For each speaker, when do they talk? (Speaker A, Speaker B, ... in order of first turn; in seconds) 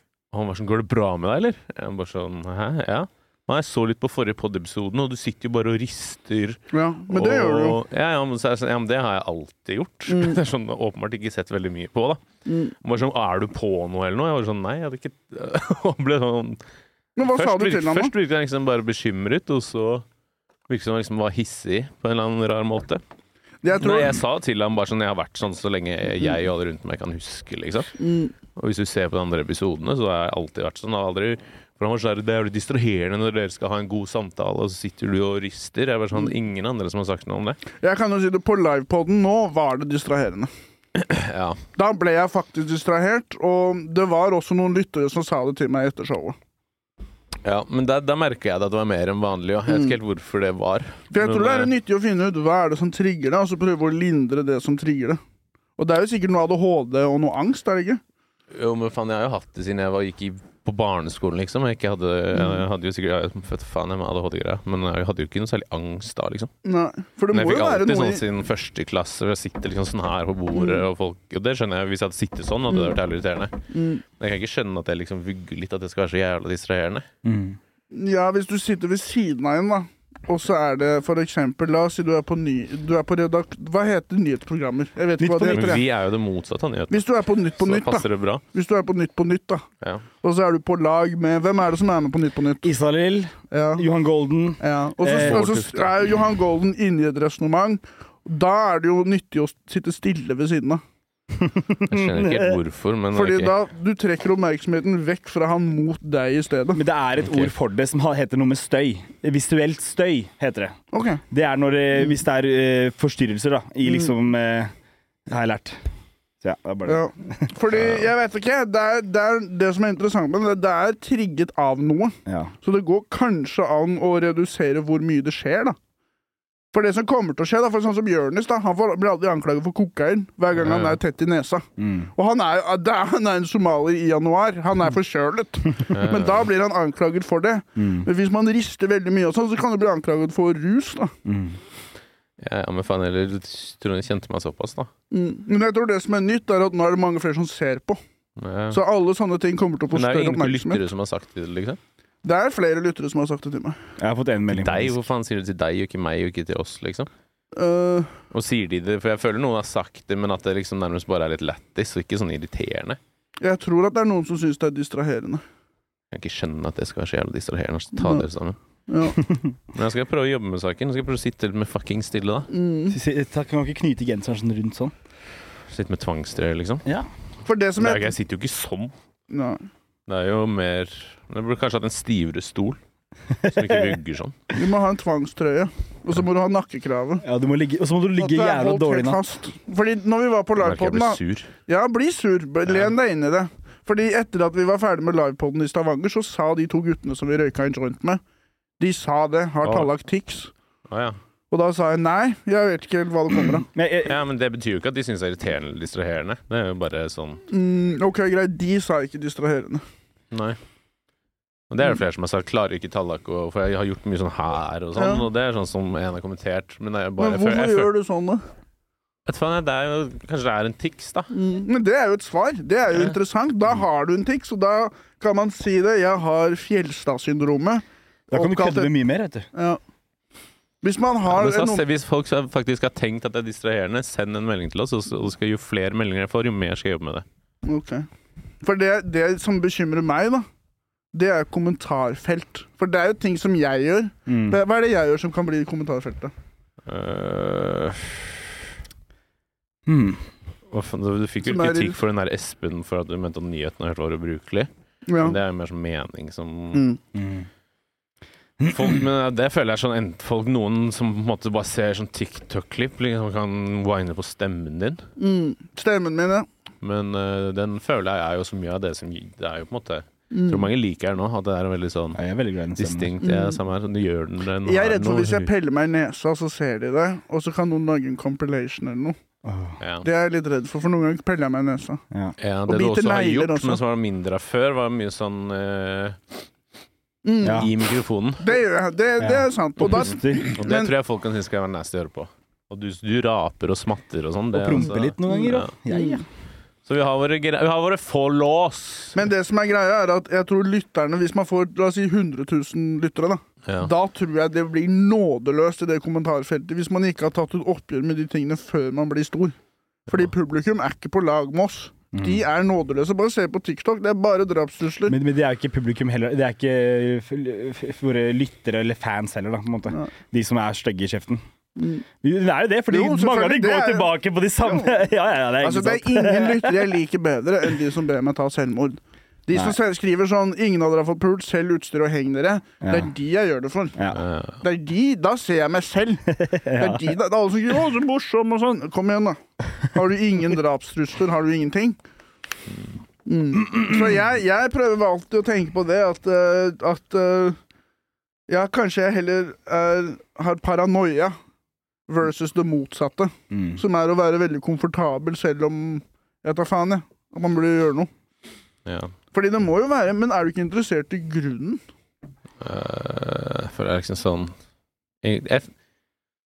Speaker A: 0.3-12.2, 12.8-16.6, 17.2-20.0, 20.7-23.0, 23.8-27.9, 28.6-37.6, 41.0-41.6, 47.4-51.7, 58.5-66.5, 67.3-77.0, 85.5-87.0, 87.6-88.4, 95.1-95.9, 101.9-103.5, 107.2-107.5, 130.6-131.0, 135.9-136.5, 142.4-144.9, 148.4-148.8, 149.9-151.8, 154.5-157.1, 158.3-163.0, 166.1-168.6, 169.7-172.5, 175.7-176.8, 177.8-178.9, 180.1-182.8, 183.4-184.3, 190.6-191.5, 200.9-201.2, 204.0-207.4, 210.3-210.6, 211.7-217.9, 219.2-221.3, 231.3-237.2, 246.8-248.5, 250.7-256.8, 258.6-265.1, 266.8-272.2, 272.8-275.5, 279.8-280.1, 282.4-286.2, 287.4-288.5, 289.9-295.7, 296.9-299.1, 303.6-303.9, 334.1-334.6, 358.9-359.1, 362.6-364.5, 365.2-365.7
Speaker B: 6.7-7.8, 10.1-10.4, 12.4-12.7, 17.2-18.1, 23.6-24.2, 28.0-28.3, 37.8-40.5, 41.8-46.4, 49.7-49.9, 51.1-55.2, 55.8-58.0, 62.3-62.6, 66.6-68.2, 70.5-70.8, 73.7-74.0, 77.9-85.8, 86.9-89.6, 90.2-92.7, 93.5-93.8, 94.6-100.8, 103.1-106.8, 110.9-111.2, 116.8-125.8, 126.7-141.1, 145.1-148.0, 148.7-150.8, 152.2-153.8, 157.6-158.1, 163.4-165.4, 168.9-169.2, 172.5-173.0, 177.4-178.1, 179.3-179.6, 184.5-187.2, 188.2-198.2, 198.8-200.5, 201.5-203.7, 207.5-209.8, 214.9-215.3, 217.2-218.4, 221.3-228.9, 229.5-229.8, 230.8-231.8, 237.7-238.1, 238.6-240.4, 241.1-246.3, 251.4-252.0, 255.1-255.3, 256.7-257.0, 265.2-266.5, 270.3-270.7, 273.2-273.6, 274.6-279.1, 280.0-282.0, 282.7-283.8, 287.2-287.7, 288.4-290.9, 295.3-296.2, 299.1-309.5, 310.1-315.1, 321.8-322.0, 322.9-325.0, 325.6-334.0, 334.6-342.0, 343.2-347.6, 348.5-351.4, 352.1-358.1, 359.3-361.8
Speaker C: 77.2-77.6, 85.2-85.8, 92.6-95.5, 101.3-102.6, 106.8-110.8, 111.3-114.7, 115.2-115.8, 116.4-117.5, 122.2-122.5, 131.8-132.1, 137.8-138.1, 141.2-141.6, 154.0-154.9, 172.9-174.9, 183.4-183.8, 187.2-189.2, 203.7-204.2, 228.3-229.5, 244.3-244.6, 249.8-250.2, 257.1-257.5, 258.6-258.8, 272.1-273.1, 279.4-279.8, 287.4-287.7, 289.2-290.5, 294.5-296.2, 312.1-312.4, 315.1-321.4, 322.2-326.9, 332.8-333.1, 336.3-337.1, 353.5-353.8